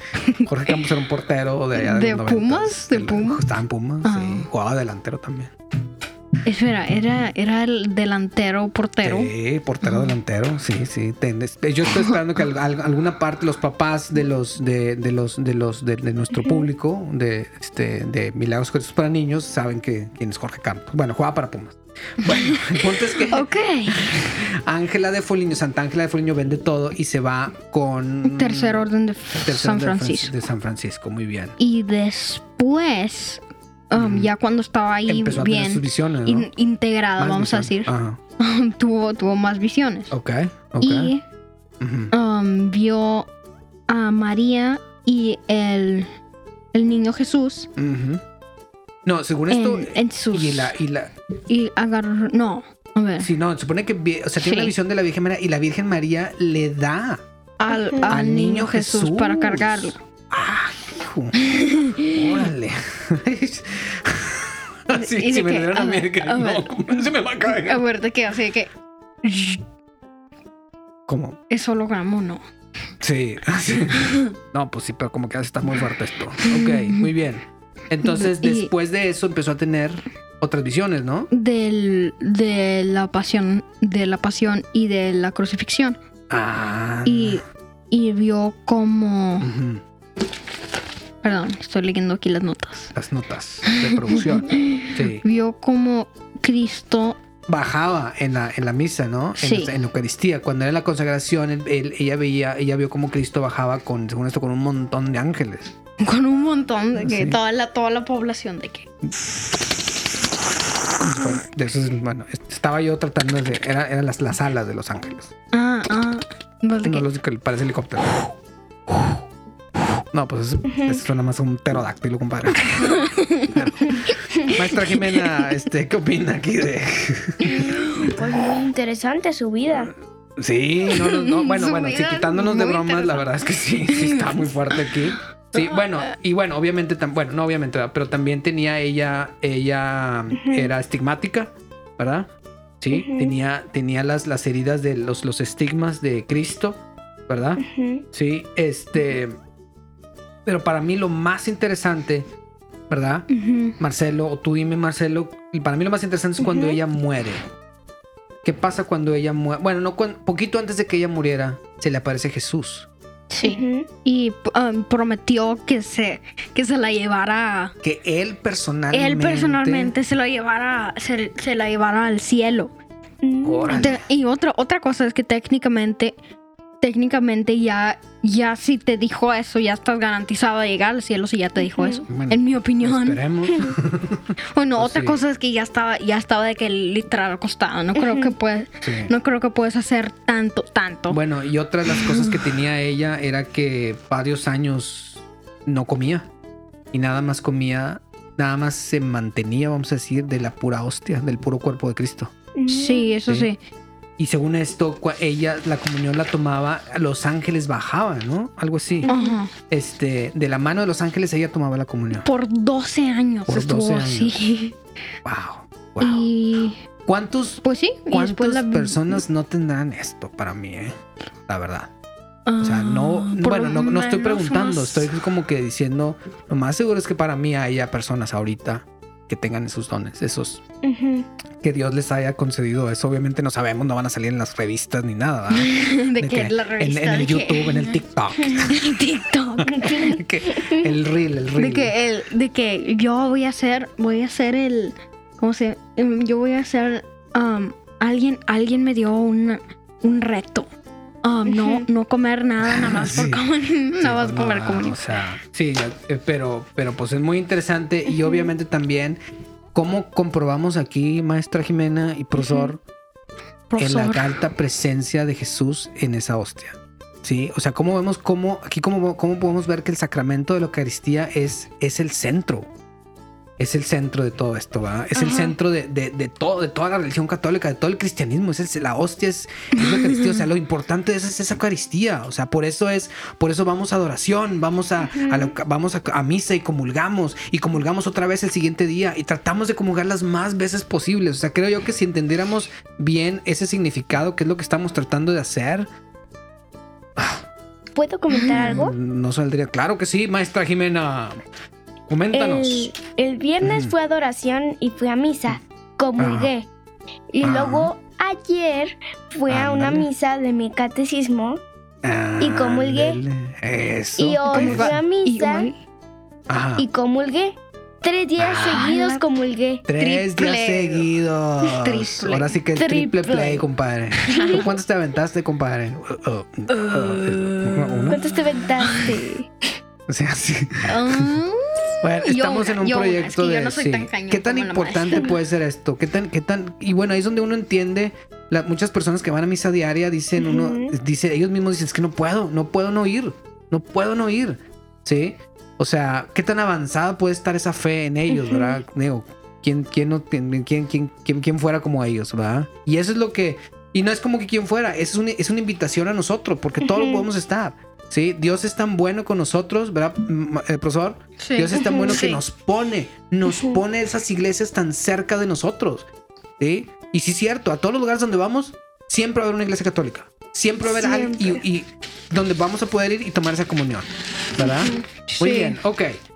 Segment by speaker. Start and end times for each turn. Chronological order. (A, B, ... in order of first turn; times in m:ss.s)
0:00.2-0:00.5 A
0:00.4-0:05.5 B
0:01.8-0:03.4 A
0:04.0-0:04.5 A
0:06.4-0:10.1 A
0:09.0-0:28.9 B
0:22.2-0:24.2 A
0:28.2-0:30.3 A
0:29.4-0:31.6 B
0:31.6-0:40.1 A
0:34.0-0:34.3 B
0:35.1-0:36.5 B
0:37.2-0:38.2 B
0:40.1-0:41.1 B
0:40.8-0:41.2 A
0:41.8-0:42.1 B
0:42.1-0:43.3 A
0:43.9-0:46.1 A
0:46.7-0:47.7 A
0:47.8-0:48.2 B
0:49.0-0:51.1 B
0:49.5-0:50.8 A
0:51.5-0:53.3 A
0:53.2-0:57.2 B
0:54.4-0:54.7 A
0:57.6-1:00.0 A
0:58.1-1:01.4 B
1:01.4-1:02.4 A
1:02.1-1:07.8 B
1:04.9-1:06.7 A
1:07.4-1:08.7 A
1:09.2-1:09.6 A
1:11.1-1:11.4 B
1:11.5-1:12.4 A
1:13.0-1:21.3 B
1:14.0-1:14.3 A
1:16.4-1:17.1 A
1:18.0-1:18.7 A
1:21.3-1:26.0 A
1:26.3-1:27.4 B
1:27.0-1:29.5 A
1:29.4-1:29.8 B
1:31.2-1:32.9 A
1:33.0-1:35.2 B
1:33.6-1:37.2 A
1:37.5-1:45.7 B
1:39.4-1:39.7 A
1:46.0-1:48.9 A
1:47.0-1:47.4 B
1:51.0-1:55.3 B
1:55.5-1:57.1 A
1:56.8-1:58.2 B
1:58.9-1:59.2 B
2:00.1-2:03.9 B
2:00.7-2:01.0 C
2:02.7-2:03.8 A
2:03.9-2:04.5 C
2:04.5-2:07.7 B
2:04.7-2:05.4 A
2:07.4-2:09.9 C
2:07.5-2:08.1 A
2:09.7-2:22.3 B
2:10.9-2:13.3 A
2:13.9-2:14.9 A
2:20.4-2:20.7 C
2:22.8-2:29.4 B
2:22.9-2:23.4 C
2:27.6-2:28.0 C
2:30.4-2:32.3 B
2:32.9-2:33.3 B
2:33.3-2:33.8 A
2:33.8-2:37.4 B
2:36.4-2:36.8 C
2:38.4-2:42.9 B
2:43.3-2:47.8 A
2:43.4-2:43.9 C
2:47.8-2:50.0 B
2:48.9-2:52.7 A
2:53.2-2:53.9 C
2:53.4-2:54.0 B
2:53.7-2:56.2 A
2:56.8-3:03.2 A
3:01.6-3:02.0 C
3:02.1-3:05.2 B
3:04.5-3:11.2 A
3:08.0-3:08.3 C
3:08.8-3:09.1 B
3:11.1-3:16.3 B
3:11.9-3:12.4 A
3:16.9-3:22.3 B
3:22.6-3:23.2 C
3:22.7-3:23.6 A
3:24.2-3:29.1 B
3:29.0-3:29.4 C
3:29.1-3:29.5 A
3:29.7-3:32.3 B
3:32.2-3:34.8 A
3:33.5-3:34.4 B
3:35.2-3:36.3 B
3:36.0-3:36.8 A
3:37.1-3:41.0 B
3:37.6-3:39.2 A
3:41.5-3:41.9 B
3:42.5-3:45.1 A
3:42.6-3:50.6 B
3:50.8-3:51.3 C
3:51.6-3:58.8 B
3:55.5-3:58.0 A
3:58.6-4:00.2 A
3:59.6-4:01.9 B
3:59.7-4:00.9 C
4:01.6-4:10.7 A
4:11.2-4:15.0 A
4:11.5-4:11.9 C
4:12.6-4:13.4 B
4:14.0-4:19.2 B
4:19.7-4:22.8 B
4:22.4-4:22.7 A
4:23.7-4:24.4 A
4:23.8-4:32.7 B
4:33.6-4:55.9 B
4:39.8-4:40.4 A
4:45.1-4:45.5 C
4:57.2-4:57.4 B
4:58.0-4:59.0 C
4:58.4-5:01.4 B
5:02.1-5:02.9 B
5:02.3-5:06.7 C
5:03.6-5:03.9 B
5:06.2-5:06.5 B
5:07.3-5:11.6 C
5:07.4-5:07.9 B
5:09.5-5:10.1 B
5:12.0-5:15.0 B
5:12.4-5:13.2 C
5:14.2-5:15.7 C
5:14.5-5:15.8 A
5:16.5-5:16.9 B
5:16.8-5:19.9 C
5:18.4-5:18.8 B
5:18.7-5:19.2 A
5:19.9-5:28.2 B
5:20.0-5:21.0 A
5:21.6-5:22.5 A
5:22.8-5:23.7 C
5:24.2-5:24.7 A
5:24.3-5:24.7 C
5:26.7-5:29.2 A
5:28.1-5:29.5 C
5:30.1-5:31.4 B
5:30.8-5:35.4 A
5:32.0-6:06.1 B
5:40.4-5:41.0 C
5:48.3-5:48.8 C
5:56.8-5:57.3 C
6:01.4-6:02.4 A
6:01.7-6:02.2 C
6:03.5-6:03.8 C
6:06.6-6:16.2 B
6:10.9-6:11.6 C
6:14.7-6:15.8 A